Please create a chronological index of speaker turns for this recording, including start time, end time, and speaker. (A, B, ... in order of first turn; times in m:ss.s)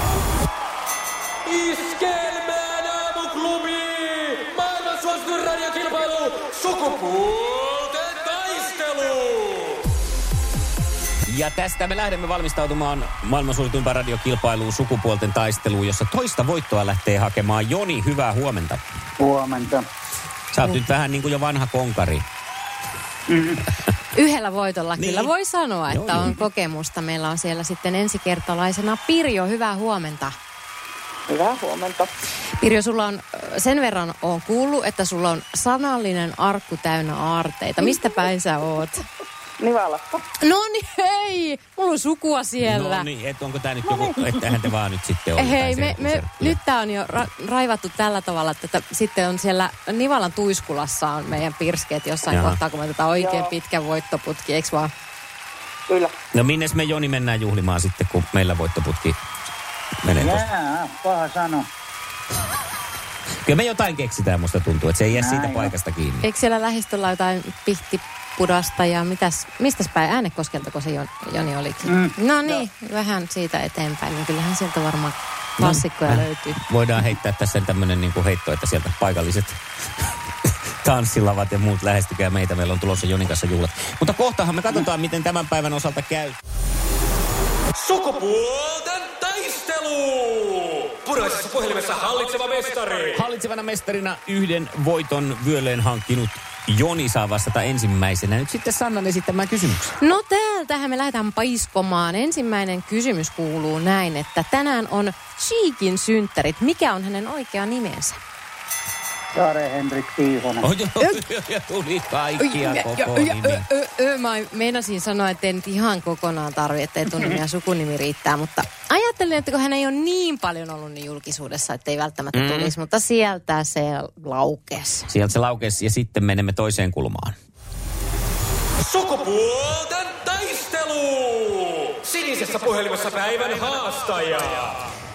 0:01.5-0:09.9 A
0:11.3-0:18.8 B
0:19.2-0:19.9 C
0:20.5-0:22.2 B
0:23.3-0:23.6 C
0:24.1-0:30.3 D
0:25.0-0:25.3 B
0:25.9-0:26.4 B
0:31.3-0:32.1 E
0:32.6-0:39.0 D
0:39.6-0:40.2 E
0:40.4-0:43.1 D
0:42.6-0:46.6 B
0:45.4-0:54.9 D
0:52.3-0:52.6 B
0:53.2-0:53.6 E
0:55.9-0:56.2 E
0:56.3-0:59.2 B
1:00.0-1:00.5 B
1:00.2-1:01.7 C
1:03.4-1:06.3 B
1:05.2-1:05.7 C
1:06.2-1:16.6 D
1:11.9-1:12.6 C
1:15.6-1:19.6 B
1:20.8-1:26.4 B
1:27.8-1:33.2 A
1:33.1-1:40.0 B
1:40.0-1:48.2 D
1:49.4-1:50.7 C
1:50.6-1:53.7 B
1:52.4-2:05.1 D
2:02.3-2:02.7 B
2:05.1-2:07.4 B
2:08.8-2:14.8 A